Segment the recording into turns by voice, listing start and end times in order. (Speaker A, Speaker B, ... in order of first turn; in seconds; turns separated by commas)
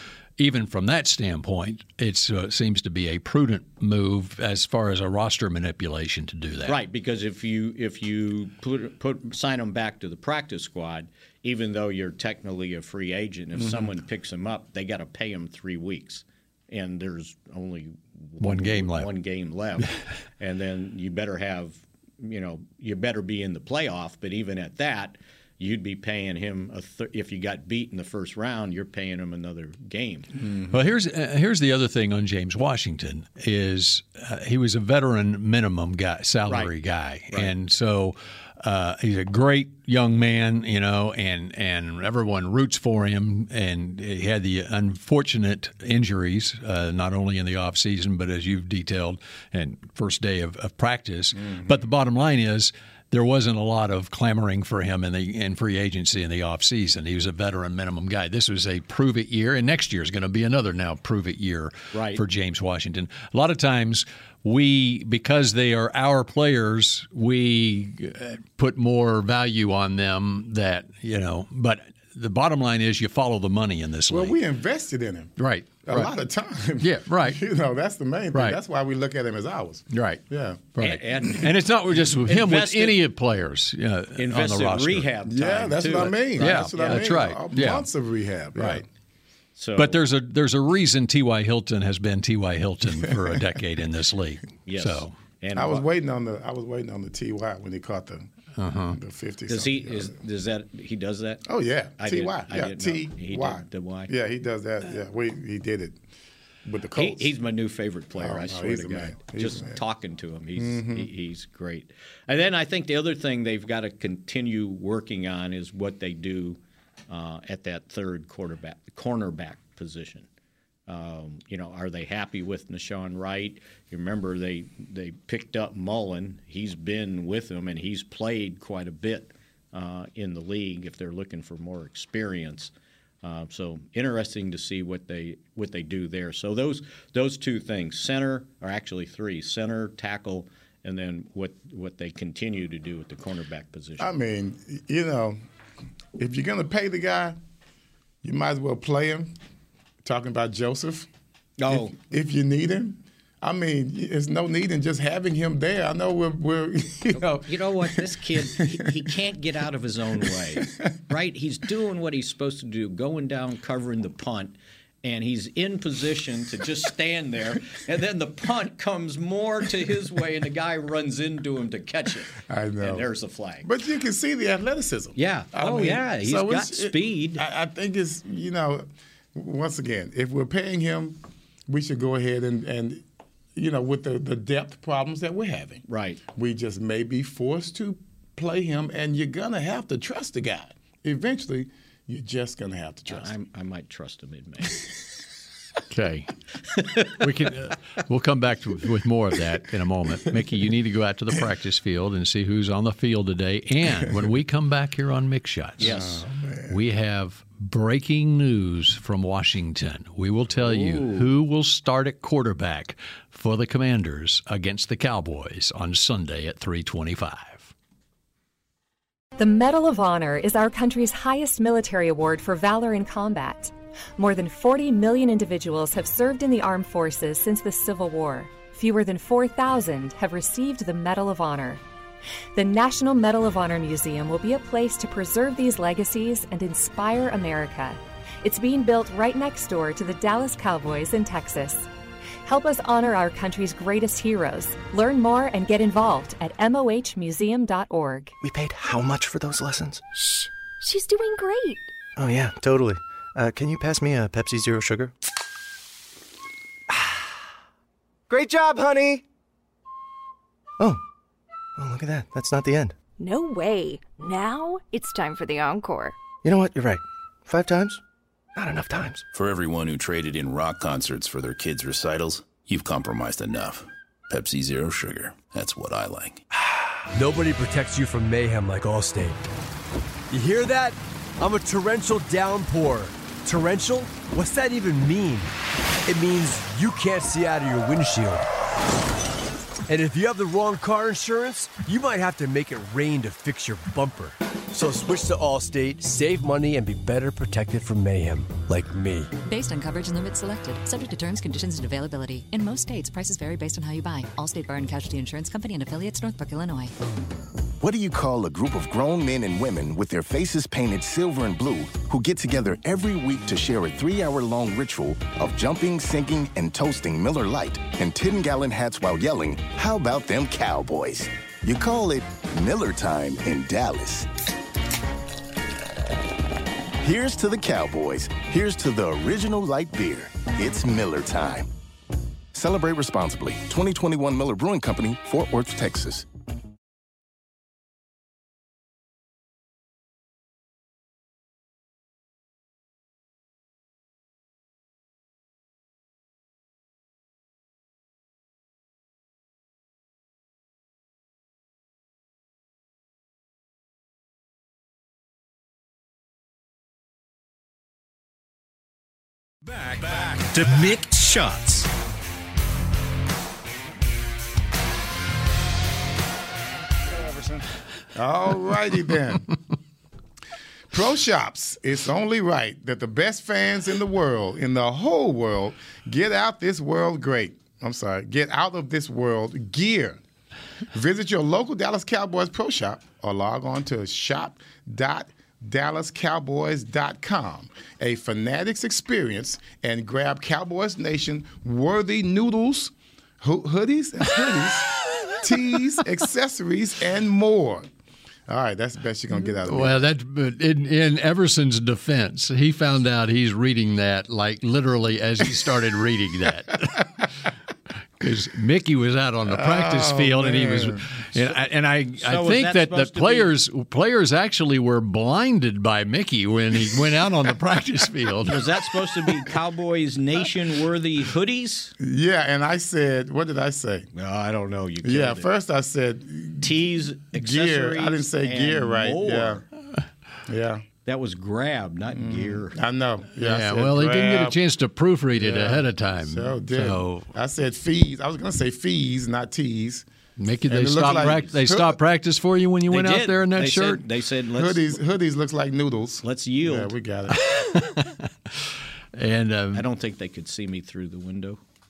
Speaker A: 0.4-6.8, Speaker B: 6.7-30.3, Speaker C: 13.6-13.9, Speaker A: 18.4-19.1, Speaker C: 30.4-30.8, Speaker A: 30.7-74.4, Speaker B: 36.5-36.7, Speaker B: 61.9-62.2, Speaker C: 74.1-81.3, Speaker A: 75.4-76.1, Speaker A: 76.8-77.4, Speaker A: 79.9-80.2, Speaker A: 80.8-85.1, Speaker B: 80.8-83.0, Speaker B: 84.2-87.3, Speaker C: 85.2-88.8, Speaker A: 86.4-87.8, Speaker A: 88.6-88.8, Speaker B: 89.5-90.0, Speaker A: 89.8-95.1, Speaker B: 94.7-95.8, Speaker C: 95.5-98.3, Speaker A: 98.6-99.0, Speaker C: 98.9-100.2, Speaker B: 99.5-101.5, Speaker C: 101.5-106.0, Speaker B: 102.0-104.1, Speaker C: 106.6-107.4, Speaker B: 106.9-116.6, Speaker C: 108.2-109.8, Speaker C: 110.5-111.1, Speaker B: 117.1-120.3, Speaker B: 120.9-132.7, Speaker B: 133.2-144.1, Speaker C: 144.0-145.4, Speaker C: 146.2-147.4, Speaker C: 148.2-149.3, Speaker C: 150.0-151.1, Speaker B: 151.6-151.9, Speaker C: 151.7-159.1, Speaker B: 157.1-173.7, Speaker C: 160.2-160.9, Speaker C: 172.4-173.1, Speaker C: 173.6-181.2, Speaker B: 175.2-177.4, Speaker C: 181.7-183.0, Speaker C: 183.5-185.8, Speaker B: 185.9-186.2, Speaker C: 186.3-193.3, Speaker B: 193.1-194.9, Speaker A: 195.9-196.3, Speaker B: 196.7-197.1, Speaker A: 197.2-206.0, Speaker B: 205.8-206.2, Speaker C: 205.8-206.8, Speaker A: 206.7-217.7, Speaker B: 210.5-211.3, Speaker D: 219.4-231.8, Speaker D: 232.5-241.9, Speaker D: 242.4-248.3, Speaker E: 248.4-250.0, Speaker F: 250.3-251.9, Speaker E: 252.2-255.1, Speaker E: 256.9-257.2, Speaker E: 258.3-259.2, Speaker E: 261.8-263.0, Speaker F: 263.2-266.1, Speaker E: 266.4-268.0, Speaker E: 268.5-269.2, Speaker G: 269.3-276.4, Speaker H: 277.1-279.4, Speaker H: 280.3-285.5, Speaker H: 286.1-288.4, Speaker H: 289.9-299.3, Speaker I: 299.4-306.9, Speaker J: 307.8-324.3, Speaker J: 327.0-331.7, Speaker J: 332.5-336.3, Speaker K: 359.6-361.9, Speaker C: 368.1-369.5, Speaker C: 370.9-380.2, Speaker C: 380.9-397.9, Speaker C: 398.5-400.0, Speaker A: 399.6-407.3, Speaker A: 408.2-418.8, Speaker C: 409.4-411.2, Speaker B: 412.2-413.5, Speaker B: 418.4-421.9, Speaker C: 422.0-424.1, Speaker B: 424.1-425.5, Speaker C: 425.0-429.6, Speaker B: 426.6-429.6, Speaker C: 430.5-430.8, Speaker B: 431.1-432.8, Speaker C: 432.1-434.6, Speaker A: 433.4-437.3, Speaker C: 435.3-440.1, Speaker A: 440.4-444.0, Speaker C: 440.6-442.0, Speaker B: 440.9-441.6, Speaker B: 442.9-445.0, Speaker C: 444.5-447.4, Speaker B: 446.2-446.9, Speaker A: 447.3-449.9, Speaker B: 449.7-451.6